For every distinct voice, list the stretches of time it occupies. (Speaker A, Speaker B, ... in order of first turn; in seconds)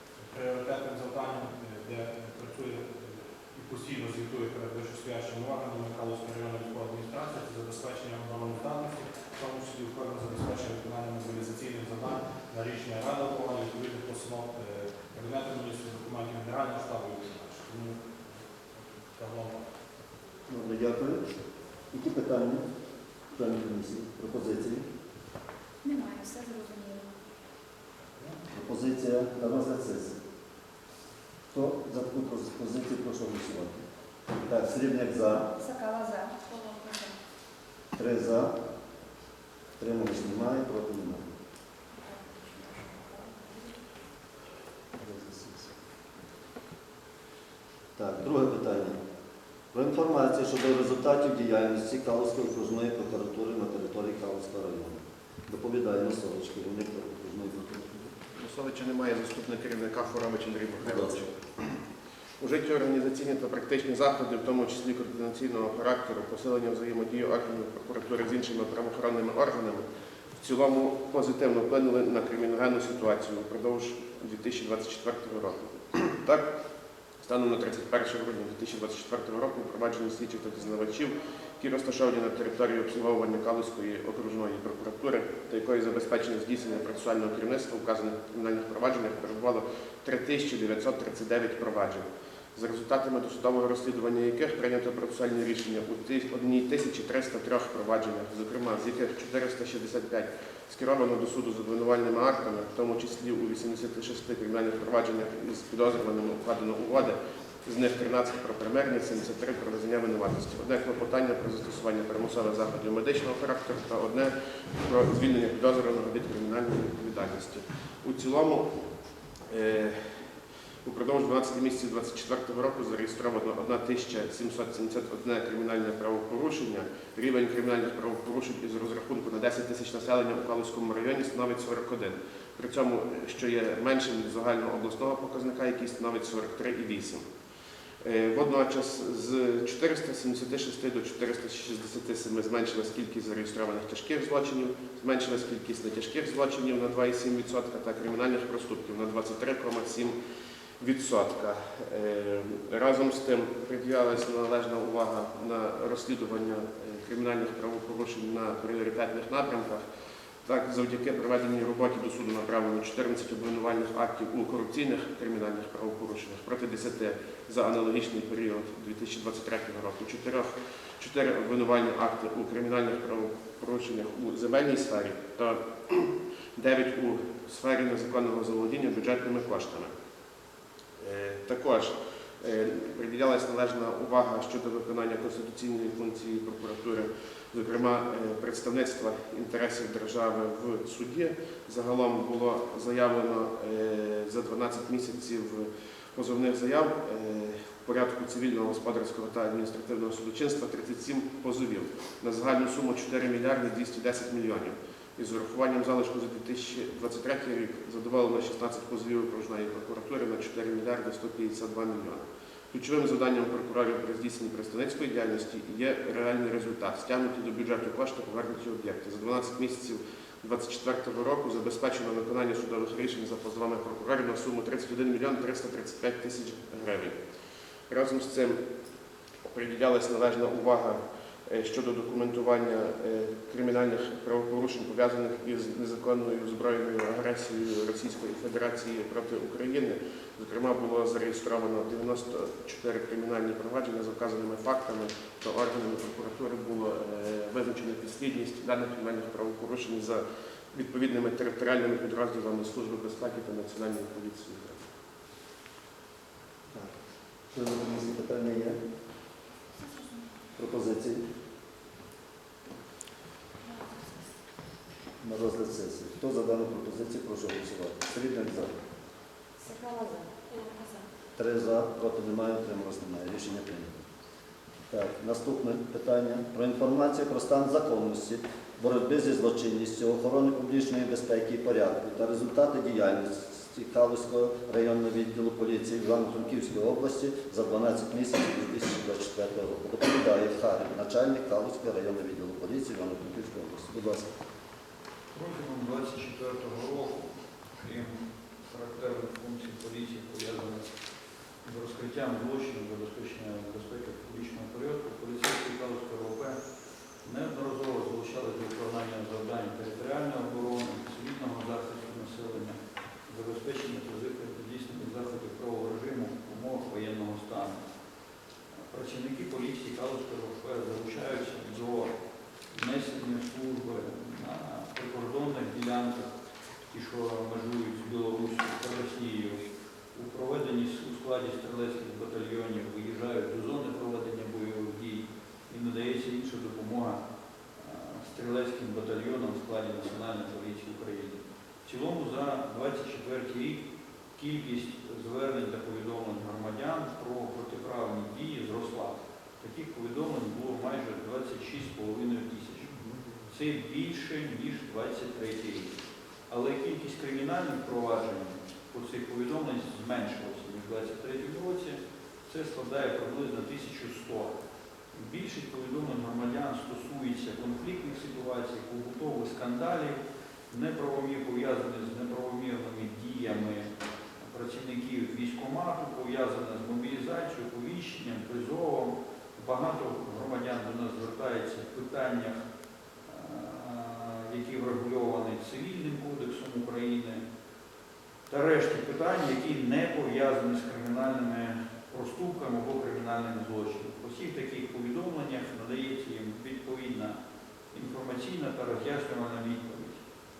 Speaker A: 0.2-18.2, 19.0-19.6
Speaker B: 20.5-21.2, 21.9-22.6, 23.3-24.8, 28.5-30.2, 31.5-33.8, 34.4-35.5, 37.9-38.5, 39.8-41.3, 45.0-45.7, 48.0-49.0, 49.7-58.1, 60.8-61.2, 257.5-258.8, 260.6-261.2, 265.2-268.7, 271.4-274.0, 274.9-294.3, 352.9-353.4
Speaker C: 25.8-27.1, 35.5-37.2, 42.0-43.9, 259.8-260.3, 263.6-264.4, 269.6-271.1
Speaker D: 58.4-61.7, 62.4-69.8, 70.4-76.5, 77.2-118.7, 119.5-120.0, 120.8-137.2, 138.0-150.1, 150.8-159.8, 160.4-179.9, 181.0-227.1, 227.9-228.6, 229.5-254.8
Speaker E: 295.3-300.9, 301.6-306.6, 307.2-317.8, 318.9-322.1, 322.7-326.3, 326.9-337.2, 337.8-343.8, 344.4-352.9, 353.5-355.9, 356.5-364.5, 365.1-382.6, 383.3-387.4, 388.5-397.4, 397.9-400.2